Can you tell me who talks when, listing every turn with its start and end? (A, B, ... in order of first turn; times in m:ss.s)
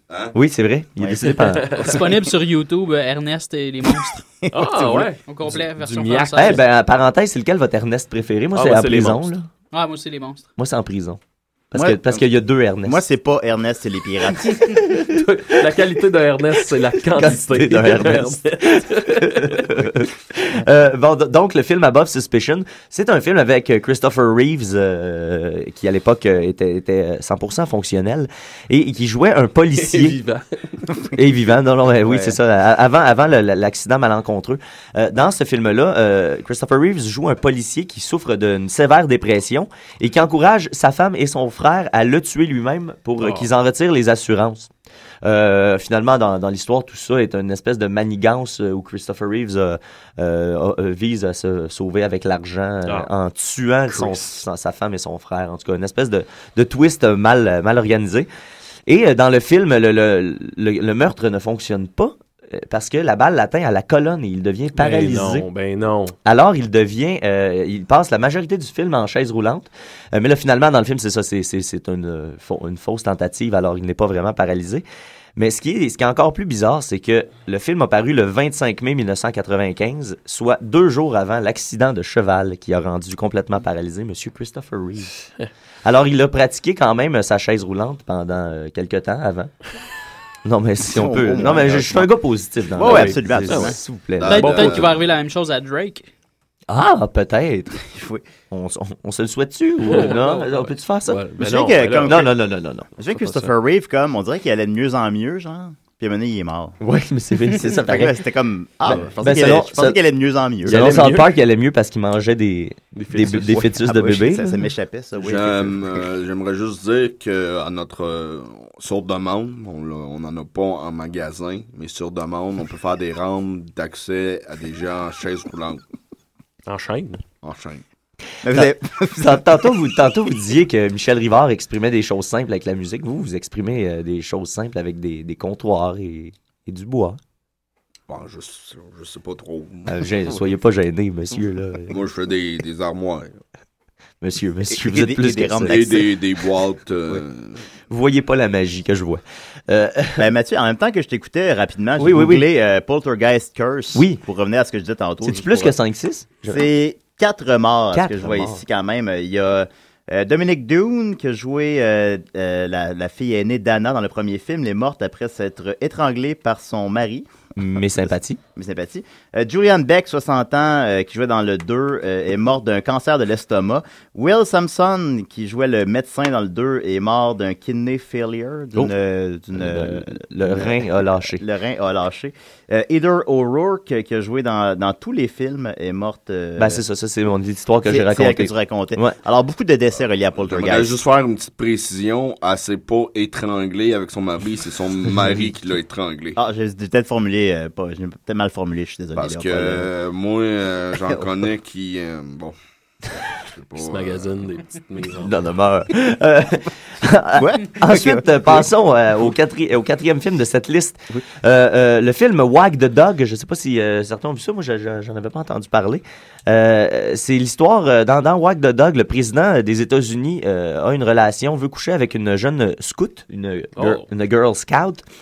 0:00.3-0:02.0 A
0:01.3-0:02.0 B
0:01.8-0:04.2 C
0:03.9-0:05.1 D
0:04.5-0:06.6 B
0:05.2-0:06.6 C
0:06.3-0:09.5 A
0:08.6-0:09.3 B
0:09.7-0:10.5 C
0:10.6-0:11.2 A
0:11.7-0:13.0 A
0:11.7-0:12.2 D
0:12.8-0:14.9 D
0:14.7-0:15.2 A
0:15.1-0:19.7 B
0:17.1-0:30.2 A
0:29.8-0:30.8 B
0:31.1-0:44.7 A
0:32.0-0:32.4 D
0:43.2-0:43.5 B
0:45.2-0:58.3 A
0:52.8-0:53.1 B
0:53.9-0:54.4 B
0:58.9-1:05.4 A
1:04.7-1:06.1 B
1:06.2-1:14.8 A
1:15.4-1:25.1 A
1:25.8-1:29.5 A
1:30.4-1:34.9 A
1:30.8-1:32.1 D
1:32.7-1:33.8 D
1:32.8-1:33.8 B
1:34.2-1:34.9 E
1:34.3-1:36.1 C
1:36.7-1:37.8 A
1:37.8-1:38.2 D
1:38.5-1:41.2 A
1:39.8-1:42.2 B
1:41.4-1:42.3 D
1:42.0-1:42.9 A
1:43.0-1:46.8 D
1:43.1-1:43.5 B
1:46.8-1:48.2 A
1:47.7-1:51.1 D
1:48.9-1:50.0 A
1:50.6-1:54.7 A
1:50.7-1:51.3 B
1:53.0-1:53.7 B
1:53.8-1:56.0 D
1:55.2-2:05.8 E
2:06.7-2:07.2 B
2:07.4-2:07.8 E
2:08.4-2:09.4 D
2:08.5-2:17.2 A
2:18.1-2:20.0 E
2:19.9-2:22.0 A
2:21.9-2:23.4 E
2:24.2-2:26.0 A
2:24.7-2:26.1 D
2:25.7-2:27.6 E
2:27.9-2:30.3 A
2:30.2-2:35.7 D
2:32.0-2:32.5 A
2:33.9-2:34.2 A
2:35.2-2:36.7 A
2:36.5-2:47.3 D
2:37.9-2:38.6 A
2:47.6-2:48.4 A
2:48.6-3:06.8 D
2:59.5-3:01.4 A
3:06.6-3:09.2 A
3:07.9-3:11.0 D
3:10.4-3:16.4 E
3:16.4-3:19.9 D
3:19.2-3:22.6 E
3:23.5-3:24.3 E
3:23.8-3:25.3 B
3:25.2-3:45.0 A
3:27.4-3:28.7 D
3:43.8-3:44.1 B